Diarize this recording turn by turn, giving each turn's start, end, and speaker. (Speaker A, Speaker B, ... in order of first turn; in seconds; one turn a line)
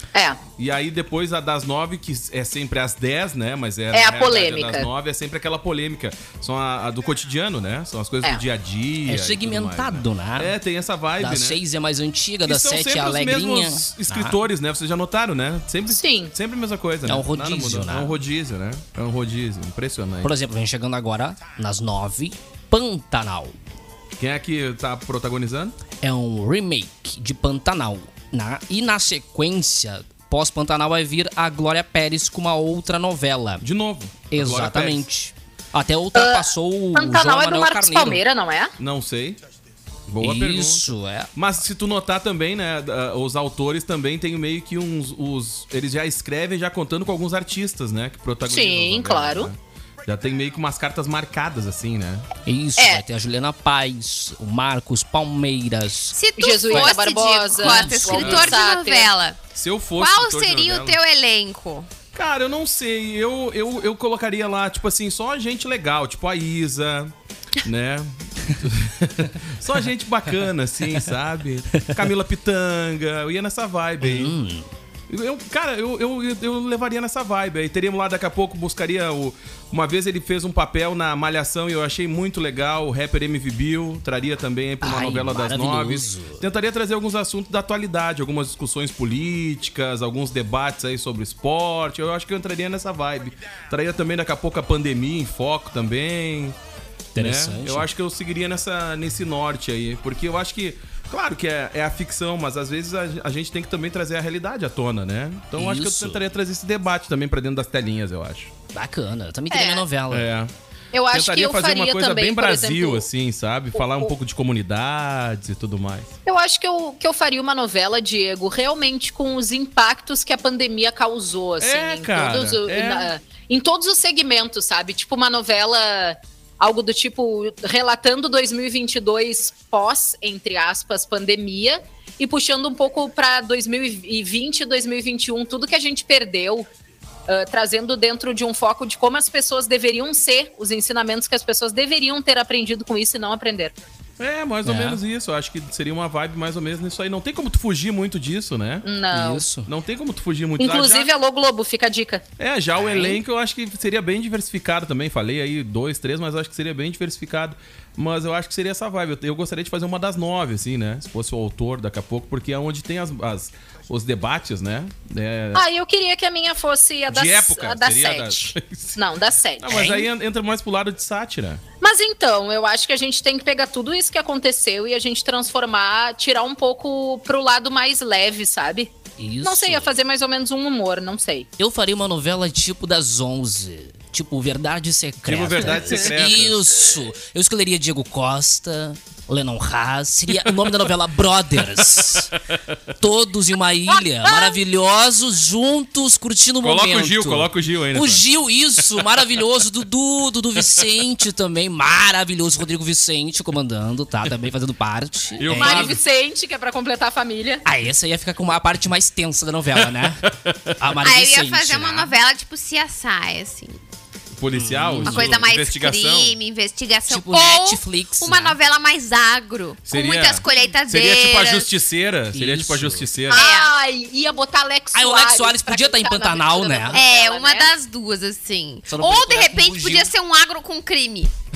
Speaker A: 0.1-0.4
Speaker B: 0.6-11.6
Speaker A: 3.9-4.9
Speaker C: 9.1-10.5
Speaker C: 11.2-14.4
Speaker B: 12.4-20.4
Speaker A: 15.9-16.3
Speaker C: 17.1-18.2
Speaker C: 20.2-23.6
Speaker B: 24.2-25.8
Speaker C: 26.0-33.6
Speaker B: 33.6-35.1
Speaker C: 34.3-38.2
Speaker A: 36.1-38.7
Speaker B: 38.8-39.4
Speaker B: 40.1-52.2
Speaker C: 40.2-41.3
Speaker A: 48.5-49.5
Speaker C: 52.5-56.2
Speaker A: 52.8-53.0
Speaker D: 56.1-59.4
Speaker A: 56.4-59.1
Speaker C: 57.6-57.9
Speaker B: 57.9-58.6
Speaker B: 59.5-61.0
Speaker D: 60.0-61.9
Speaker B: 62.1-74.3
Speaker C: 71.7-72.0
Speaker C: 74.0-74.7
Speaker B: 75.1-96.6
Speaker C: 84.8-86.4
Speaker C: 97.1-97.9
Speaker B: 97.2-108.5
Speaker C: 105.5-106.2
Speaker C: 108.7-110.3
Speaker A: 109.5-109.8
Speaker B: 110.1-110.5
Speaker A: 110.9-113.1
Speaker B: 111.1-116.1
Speaker A: 113.8-114.1
Speaker A: 116.2-136.7
Speaker B: 121.6-123.1
Speaker A: 137.3-143.7
Speaker B: 144.2-148.9
Speaker C: 144.6-145.0
Speaker A: 148.8-149.5
Speaker C: 149.1-149.7
Speaker B: 149.7-151.1
Speaker A: 150.6-152.2
Speaker B: 152.4-165.7
Speaker A: 165.5-170.1
Speaker B: 167.1-169.0
Speaker B: 169.6-171.6
Speaker A: 171.8-181.5
Speaker C: 179.2-179.9
Speaker C: 181.6-192.3
Speaker B: 185.2-186.9
Speaker A: 185.7-186.1
Speaker B: 190.3-190.8
Speaker B: 191.8-192.8
Speaker C: 193.0-205.9
Speaker A: 194.2-194.6
Speaker B: 196.6-198.2
Speaker B: 200.6-200.9
Speaker B: 205.4-206.0
Speaker A: 205.5-207.6
Speaker C: 207.6-212.1
Speaker B: 209.8-210.9
Speaker D: 211.0-213.8
Speaker B: 214.3-216.3
Speaker C: 214.5-215.4
Speaker D: 215.0-221.7
Speaker C: 217.1-218.6
Speaker B: 219.9-223.4
Speaker C: 222.3-223.1
Speaker A: 223.3-227.7
Speaker D: 223.3-223.7
Speaker C: 224.9-227.0
Speaker D: 226.9-231.3
Speaker C: 228.9-230.1